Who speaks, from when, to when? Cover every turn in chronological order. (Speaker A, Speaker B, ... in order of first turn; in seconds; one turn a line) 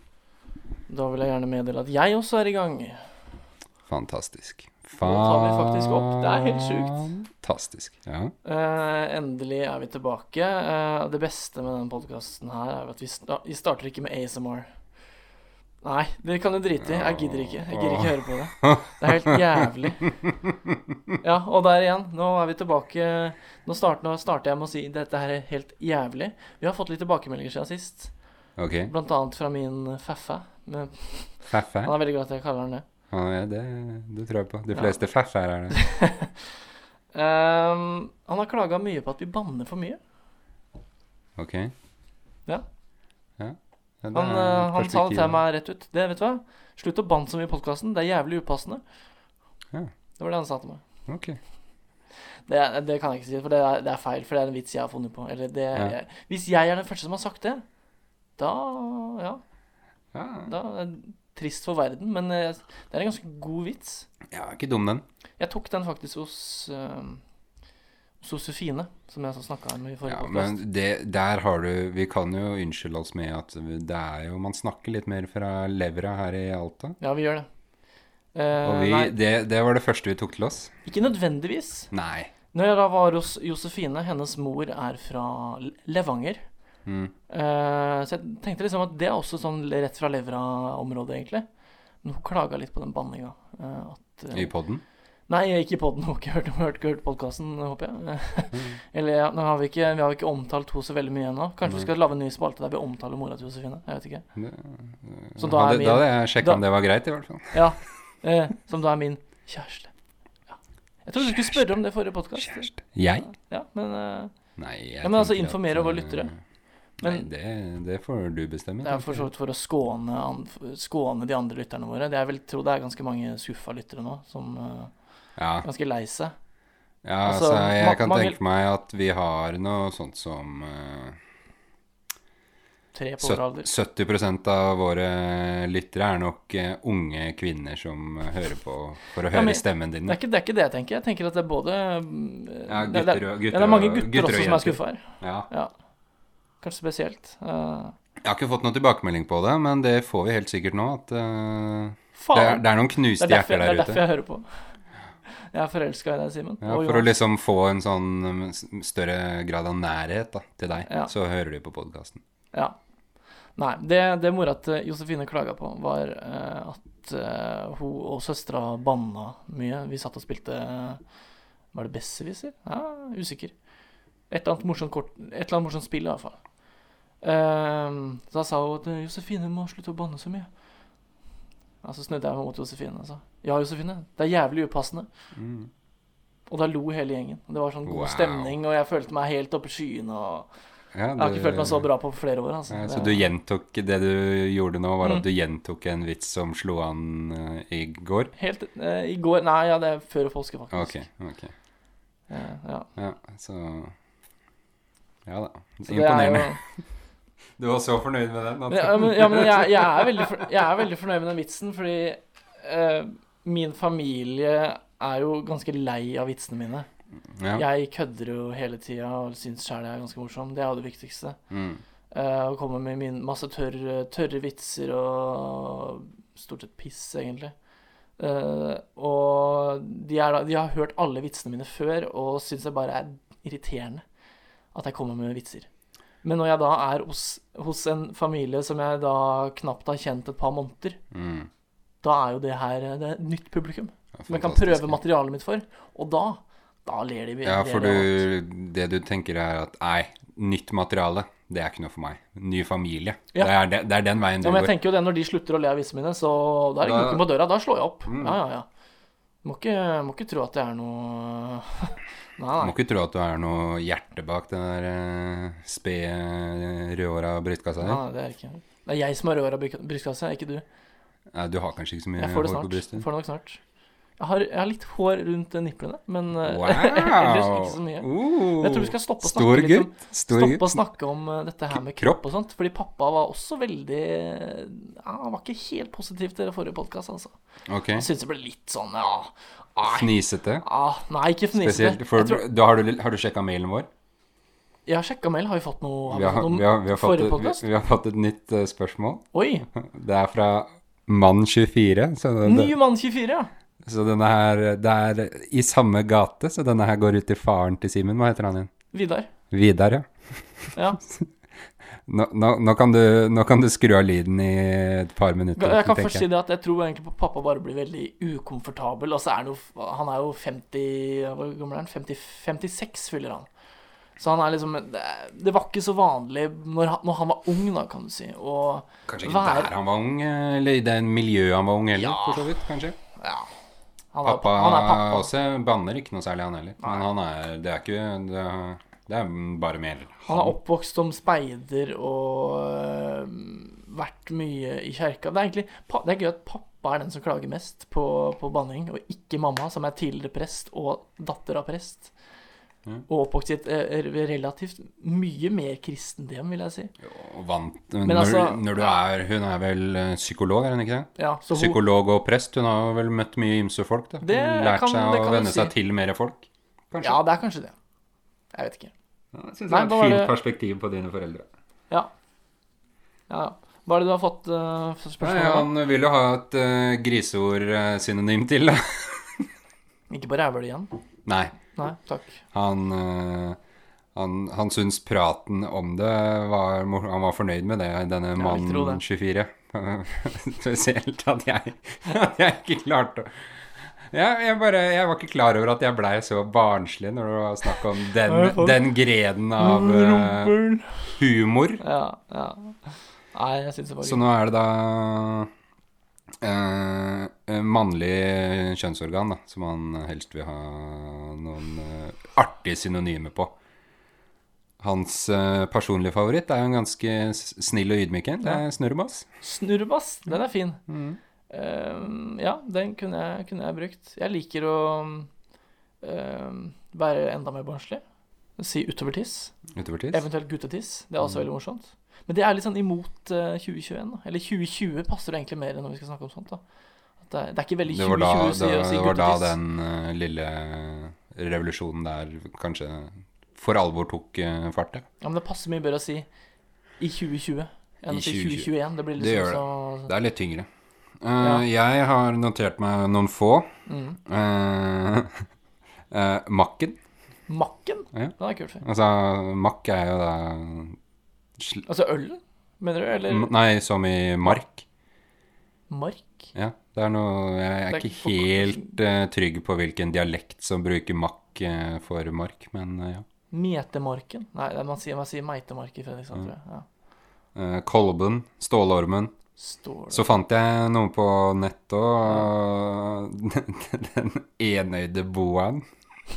Speaker A: 0.9-3.0
Speaker B: 3.9-8.3
Speaker A: 5.0-7.1
Speaker A: 8.4-14.7
Speaker A: 15.8-20.1
Speaker B: 16.8-19.7
Speaker B: 20.2-21.1
Speaker A: 21.2-28.1
Speaker B: 28.6-28.9
Speaker A: 28.9-32.8
Speaker B: 31.5-31.9
Speaker B: 33.1-35.8
Speaker A: 34.7-35.0
Speaker A: 35.7-36.3
Speaker A: 37.1-40.0
Speaker B: 41.4-41.7
Speaker B: 43.4-45.4
Speaker A: 44.1-48.8
Speaker A: 50.2-50.8
Speaker B: 51.1-51.4
Speaker A: 52.5-57.6
Speaker A: 58.4-59.4
Speaker B: 60.1-60.5
Speaker A: 60.5-64.1
Speaker B: 64.3-65.0
Speaker A: 65.4-67.2
Speaker A: 68.2-70.6
Speaker B: 70.0-77.0
Speaker A: 77.0-77.5
Speaker A: 78.3-79.1
Speaker B: 78.6-80.7
Speaker A: 80.8-81.9
Speaker B: 81.9-82.3
Speaker A: 82.5-86.4
Speaker B: 86.8-87.1
Speaker A: 87.3-91.4
Speaker A: 92.0-94.5
Speaker B: 94.3-94.8
Speaker A: 95.3-104.2
Speaker B: 104.3-107.6
Speaker A: 105.4-106.6
Speaker A: 107.5-109.9
Speaker A: 110.5-112.7
Speaker B: 111.2-111.8
Speaker B: 112.4-113.3
Speaker A: 113.2-114.3
Speaker B: 114.6-116.4
Speaker A: 115.0-116.3
Speaker B: 117.0-119.3
Speaker A: 117.0-117.3
Speaker A: 118.8-124.9
Speaker B: 125.4-125.7
Speaker A: 125.6-126.3
Speaker B: 127.0-131.2
Speaker A: 127.2-128.4
Speaker A: 132.9-133.7
Speaker B: 133.2-140.2
Speaker A: 139.3-145.7
Speaker B: 142.7-145.5
Speaker A: 146.6-147.9
Speaker B: 148.2-154.0
Speaker A: 152.2-154.4
Speaker A: 155.5-157.1
Speaker B: 156.6-162.2
Speaker A: 163.6-171.0
Speaker A: 171.7-173.5
Speaker A: 174.3-176.4
Speaker A: 177.2-180.5
Speaker A: 181.8-185.1
Speaker B: 185.3-185.7
Speaker A: 186.5-190.5
Speaker B: 187.8-188.6
Speaker B: 190.9-191.9
Speaker A: 191.2-193.3
Speaker B: 192.7-198.3
Speaker A: 198.4-201.0
Speaker B: 200.7-201.5
Speaker A: 202.3-202.9
Speaker B: 202.9-203.9
Speaker B: 205.2-206.6
Speaker A: 205.8-206.6
Speaker B: 207.6-210.4
Speaker A: 208.7-216.9
Speaker B: 217.3-217.6
Speaker A: 217.5-221.4
Speaker B: 221.5-221.8
Speaker A: 222.1-227.5
Speaker A: 228.2-234.0
Speaker A: 234.7-235.7
Speaker A: 236.2-241.0
Speaker B: 241.1-241.5
Speaker A: 242.0-248.2
Speaker B: 244.2-245.0
Speaker B: 247.4-254.7
Speaker A: 254.4-258.7
Speaker B: 256.8-257.3
Speaker B: 258.1-258.4
Speaker A: 259.4-262.7
Speaker B: 262.6-268.0
Speaker A: 267.8-270.6
Speaker B: 271.3-273.0
Speaker A: 272.2-273.6
Speaker A: 274.2-287.3
Speaker B: 276.4-280.8
Speaker B: 281.7-282.2
Speaker B: 287.7-288.1
Speaker A: 287.9-290.1
Speaker B: 289.8-290.6
Speaker A: 290.6-292.4
Speaker B: 291.5-293.9
Speaker A: 294.9-297.6
Speaker B: 296.1-302.7
Speaker A: 299.3-299.7
Speaker A: 302.4-303.5
Speaker B: 303.8-308.7
Speaker A: 308.9-309.3
Speaker B: 309.5-311.3
Speaker B: 312.0-316.2
Speaker A: 315.6-323.5
Speaker A: 324.2-329.7
Speaker B: 329.1-333.0
Speaker A: 332.0-332.6
Speaker A: 333.2-333.5
Speaker A: 334.1-335.3
Speaker B: 334.2-340.6
Speaker A: 340.3-352.1
Speaker A: 353.1-356.9
Speaker B: 357.0-367.2
Speaker A: 358.0-358.9
Speaker A: 361.2-361.8
Speaker A: 364.2-365.7
Speaker A: 367.0-367.7
Speaker A: 368.5-368.9
Speaker B: 369.3-371.5
Speaker A: 369.7-370.3
Speaker A: 373.3-375.7
Speaker B: 375.2-379.5
Speaker A: 380.1-381.0
Speaker B: 381.2-381.6
Speaker A: 381.8-382.4
Speaker B: 382.5-383.6
Speaker B: 384.1-400.5
Speaker A: 388.4-389.0
Speaker A: 398.2-398.8
Speaker A: 399.6-401.2
Speaker B: 401.2-401.8
Speaker A: 401.8-404.2
Speaker B: 404.0-405.5
Speaker B: 406.4-413.5
Speaker B: 414.8-419.3
Speaker A: 419.4-420.8
Speaker B: 420.9-421.2
Speaker A: 421.5-425.3
Speaker A: 426.0-428.0
Speaker A: 428.6-429.6
Speaker B: 429.7-430.2
Speaker A: 430.1-436.6
Speaker A: 437.2-439.5
Speaker B: 437.9-445.0
Speaker A: 445.2-446.3
Speaker A: 447.0-450.1
Speaker B: 448.1-450.7
Speaker B: 451.2-453.7
Speaker A: 453.9-454.2
Speaker B: 454.2-455.4
Speaker B: 456.1-457.0
Speaker A: 457.5-458.8
Speaker B: 458.1-461.0
Speaker B: 461.6-461.9
Speaker A: 461.9-463.5
Speaker B: 463.3-464.9
Speaker A: 465.9-466.5
Speaker B: 466.5-473.2
Speaker A: 467.9-468.9
Speaker A: 473.5-476.9
Speaker B: 477.5-479.3
Speaker A: 479.6-480.3
Speaker B: 480.1-485.8